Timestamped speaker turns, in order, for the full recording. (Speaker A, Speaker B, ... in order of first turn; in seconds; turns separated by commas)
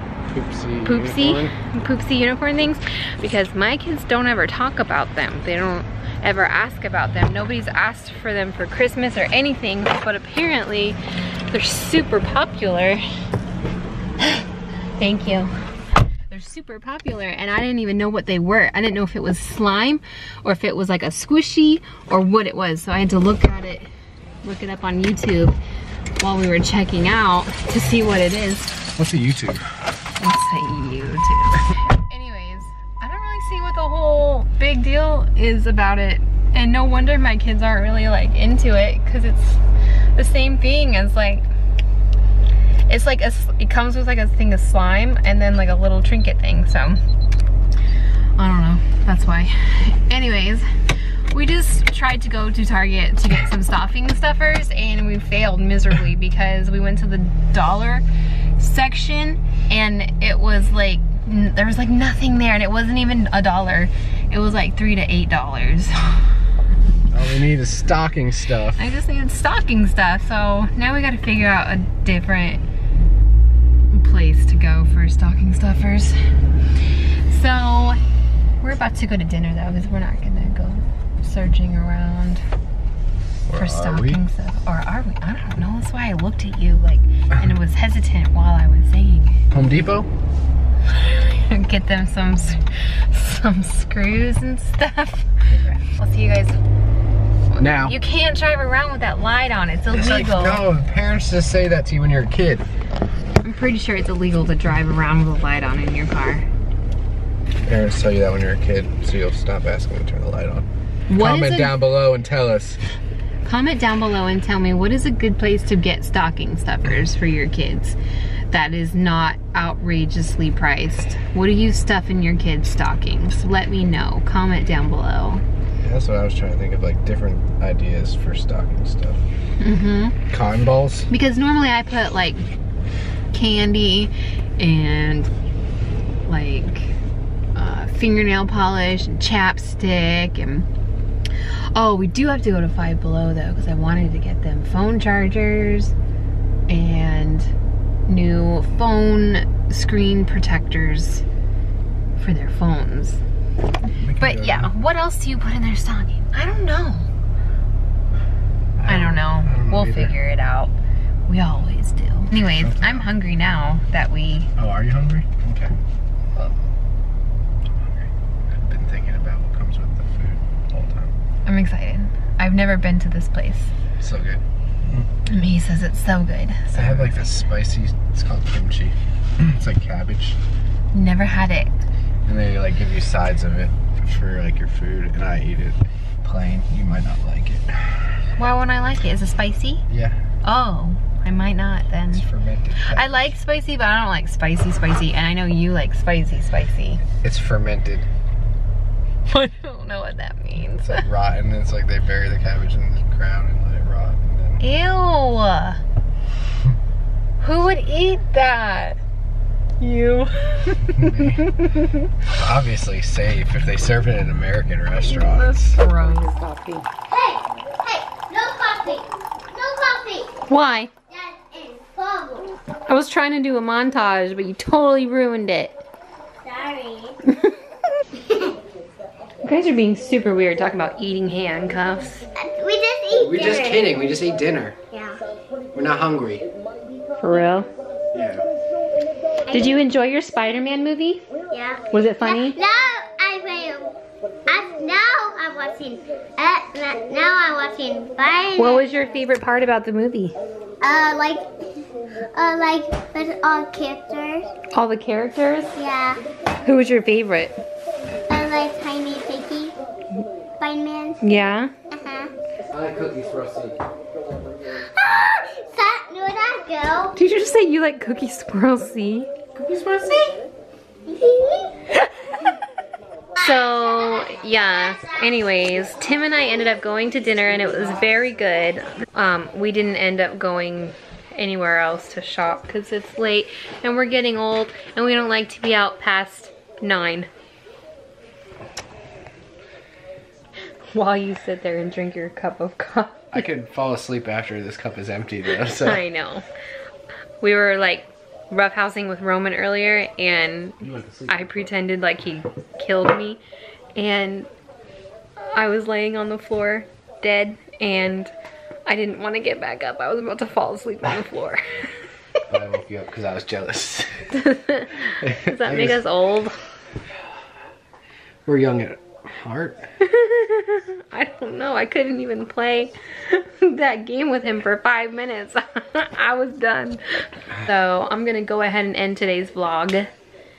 Speaker A: 0.3-1.6, Speaker B: 0.8-13.0, Speaker B: 14.2-14.5, Speaker B: 15.0-15.5, Speaker B: 16.3-23.9, Speaker B: 24.4-25.6, Speaker B: 26.2-28.8, Speaker A: 29.0-29.7, Speaker B: 30.2-39.6, Speaker B: 40.1-41.5, Speaker B: 42.9-47.0, Speaker B: 48.4-50.7, Speaker B: 51.3-58.0, Speaker B: 58.6-66.3, Speaker A: 67.1-68.8, Speaker B: 68.8-72.6, Speaker B: 73.9-76.2, Speaker B: 77.3-78.0, Speaker B: 78.6-82.4, Speaker A: 83.5-84.2, Speaker B: 83.5-89.4, Speaker A: 89.5-90.1, Speaker B: 90.9-96.6, Speaker A: 95.5-95.8, Speaker B: 97.5-100.6, Speaker A: 97.6-98.0, Speaker A: 99.9-102.7, Speaker B: 103.4-106.5, Speaker A: 107.7-112.8, Speaker B: 111.1-111.8, Speaker B: 113.5-118.0, Speaker B: 118.5-125.4, Speaker A: 125.8-129.2, Speaker B: 129.6-130.2, Speaker A: 130.3-131.1, Speaker B: 131.1-132.5, Speaker B: 133.3-135.3, Speaker B: 136.2-136.9, Speaker B: 137.6-140.7, Speaker B: 141.7-145.9, Speaker B: 146.7-147.5, Speaker B: 148.1-151.2, Speaker B: 152.2-153.2, Speaker A: 153.9-154.7, Speaker B: 154.2-157.1, Speaker A: 158.8-160.2, Speaker B: 158.9-160.7, Speaker B: 161.3-164.5, Speaker A: 162.3-163.1, Speaker A: 164.6-165.8, Speaker A: 167.8-171.2, Speaker B: 171.5-173.7, Speaker A: 174.0-174.4, Speaker B: 175.2-177.2, Speaker A: 176.7-180.4, Speaker B: 180.9-181.7, Speaker A: 182.3-188.0, Speaker B: 188.4-189.8, Speaker A: 189.9-190.2, Speaker B: 190.4-192.2, Speaker A: 192.1-193.3, Speaker B: 192.8-197.0, Speaker A: 197.2-198.1, Speaker B: 199.3-201.1, Speaker A: 200.8-204.6, Speaker B: 204.6-205.8, Speaker B: 207.4-209.0, Speaker B: 209.8-212.1, Speaker A: 210.9-211.5, Speaker A: 212.2-215.8, Speaker B: 215.0-216.9, Speaker C: 217.1-220.3, Speaker B: 220.5-220.9, Speaker C: 221.1-222.6, Speaker B: 222.9-225.8, Speaker C: 226.4-227.2, Speaker C: 228.3-228.5, Speaker B: 229.4-232.3, Speaker C: 232.4-233.9, Speaker A: 233.2-234.8, Speaker C: 234.9-235.2, Speaker A: 235.7-236.4, Speaker B: 237.2-237.7, Speaker A: 238.1-238.4, Speaker C: 239.5-239.8, Speaker B: 239.5-241.2, Speaker C: 241.5-244.0, Speaker B: 241.9-242.6, Speaker C: 244.5-248.8, Speaker B: 248.6-250.3, Speaker C: 250.8-254.5, Speaker B: 254.7-255.8, Speaker C: 255.8-256.2, Speaker B: 256.6-257.6, Speaker C: 258.3-259.8, Speaker C: 260.6-261.2, Speaker B: 261.2-261.7, Speaker C: 261.9-262.3, Speaker A: 262.7-263.8, Speaker C: 264.8-267.1, Speaker B: 267.1-269.3, Speaker A: 269.6-270.3, Speaker C: 271.1-271.8, Speaker B: 271.9-272.5, Speaker B: 273.4-287.3, Speaker C: 273.6-274.4, Speaker B: 290.9-293.4, Speaker A: 293.3-296.0, Speaker B: 295.7-296.4, Speaker B: 297.4-303.4, Speaker A: 300.8-301.7, Speaker B: 304.0-304.5, Speaker B: 305.5-308.3, Speaker B: 308.9-311.9, Speaker A: 312.5-314.3, Speaker B: 314.3-316.6, Speaker A: 315.1-316.0, Speaker A: 318.5-319.9, Speaker B: 320.0-330.1